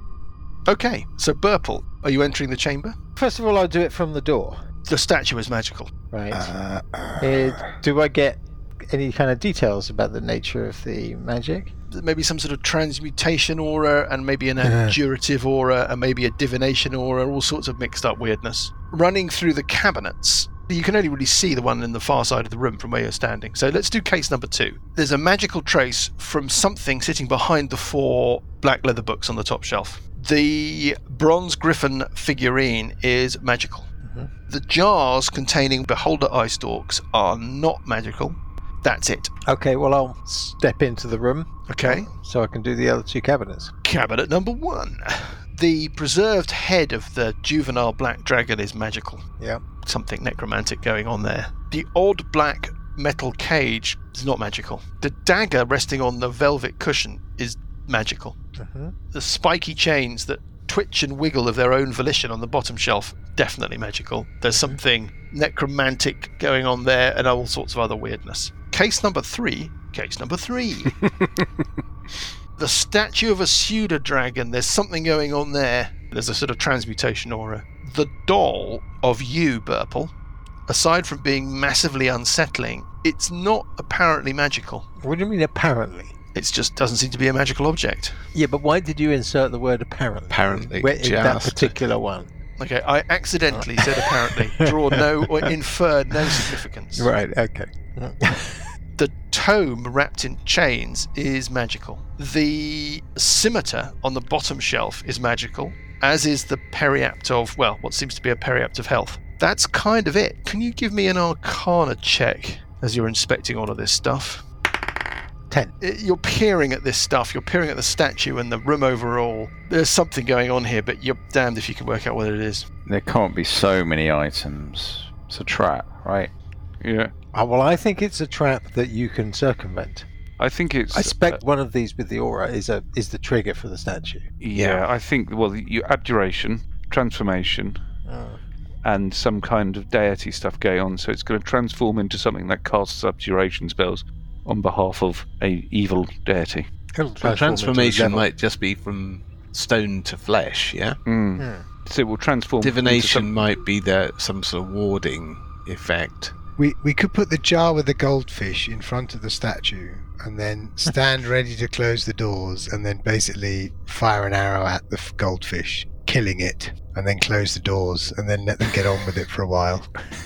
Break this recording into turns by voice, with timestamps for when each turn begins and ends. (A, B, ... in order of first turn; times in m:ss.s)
0:00.7-0:02.9 A
0:03.2-0:04.6 B
0:04.9-0:05.9 A
0:06.1-0:06.5 B
0:06.3-0:07.8 C
0:07.2-0:11.7 B
0:11.9-0:33.9 A
0:34.0-0:34.3 B
0:34.5-0:39.3 A
0:39.5-0:43.7 B
0:41.7-0:42.1 A
0:43.8-0:49.2 A
0:49.8-0:58.4 A
0:58.6-0:58.9 B
0:59.1-1:11.0 A
1:04.5-1:04.8 B
1:12.6-1:20.1 A
1:20.7-1:24.9 A
1:25.0-1:26.1 B
1:26.3-1:28.2 A
1:28.3-1:32.3 B
1:30.3-1:31.7 D
1:32.6-1:37.1 A
1:33.5-1:34.0 B
1:37.0-1:38.7 B
1:39.0-1:54.4 A
1:55.8-2:02.6 A
2:02.9-2:06.3 E
2:06.8-2:07.1 F
2:07.3-2:10.1 B
2:10.4-2:11.4 F
2:10.9-2:14.2 B
2:14.4-2:17.8 F
2:14.5-2:14.8 D
2:18.0-2:18.4 B
2:18.8-2:26.7 F
2:26.9-2:28.2 B
2:27.2-2:31.0 D
2:31.0-2:33.4 F
2:31.4-2:31.6 B
2:32.6-2:36.3 D
2:36.6-2:50.0 C